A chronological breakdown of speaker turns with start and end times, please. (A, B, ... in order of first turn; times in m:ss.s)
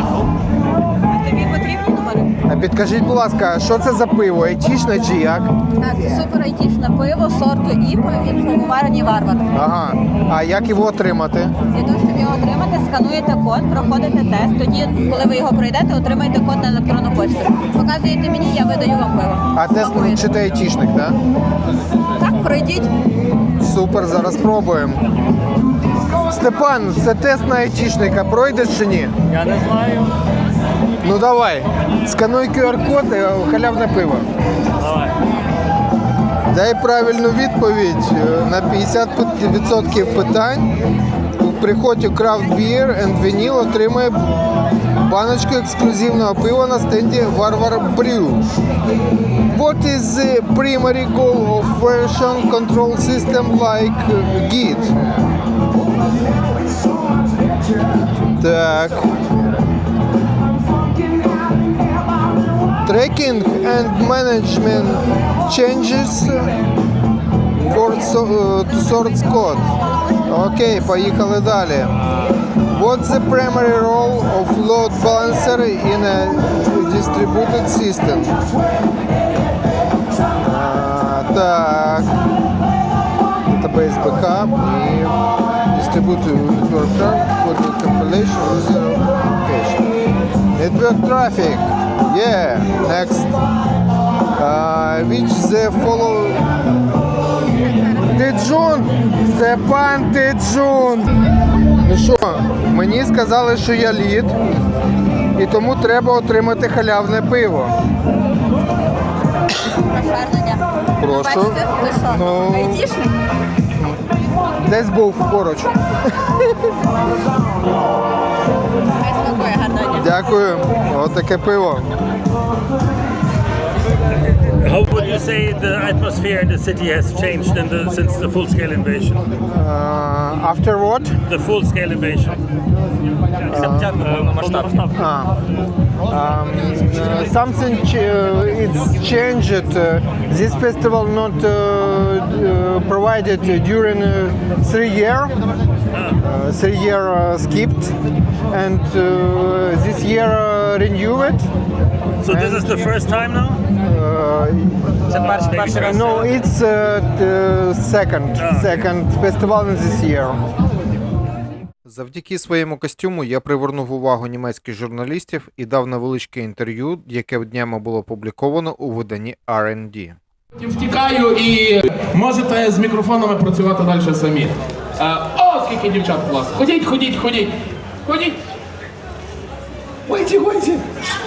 0:01.1-0:02.3 A
0:02.5-0:05.5 B
0:05.8-0:09.5 A
0:09.5-0:11.6 B
0:11.7-0:20.3 A
0:19.5-0:21.2 B
0:22.2-0:22.9 A
0:23.6-0:25.0 B
0:26.2-0:29.2 B
0:29.3-0:30.0 C
0:31.0-0:34.3 B
0:34.8-0:35.1 C
0:36.5-0:40.7 B
0:41.4-0:44.3 B
0:45.0-0:48.5 B
0:49.5-0:55.0 B
0:58.4-0:59.1 B
1:02.9-1:06.6 B
1:07.6-1:09.7 B
1:10.3-1:11.9 B
1:12.7-1:18.4 B
1:20.4-1:22.1 B
1:23.5-1:29.9 B
1:30.5-1:33.4 B
1:34.3-1:36.5 B
1:37.9-1:41.1 B
1:41.8-1:44.4 B
1:45.4-1:47.8 B
1:49.9-1:53.2 A
1:51.0-1:52.8 B
1:54.6-1:56.7 B
1:59.0-2:00.2 A
2:00.0-2:01.9 B
2:04.5-2:09.3 D
2:09.5-2:11.2 B
2:11.3-2:12.4 D
2:13.5-2:14.1 B
2:13.8-2:14.8 C
2:14.2-2:14.8 D
2:14.9-2:15.4 B
2:16.1-2:25.4 B
2:26.2-2:28.0 B
2:28.5-2:31.5 B
2:32.2-2:33.6 D
2:32.3-2:32.9 B
2:33.8-2:35.0 B
2:35.1-2:36.3 C
2:35.1-2:36.1 D
2:35.6-2:40.4 B
2:38.4-2:38.7 D
2:41.8-2:50.2 B
2:50.6-2:57.5 E
2:58.0-2:58.4 E
3:00.1-3:00.8 E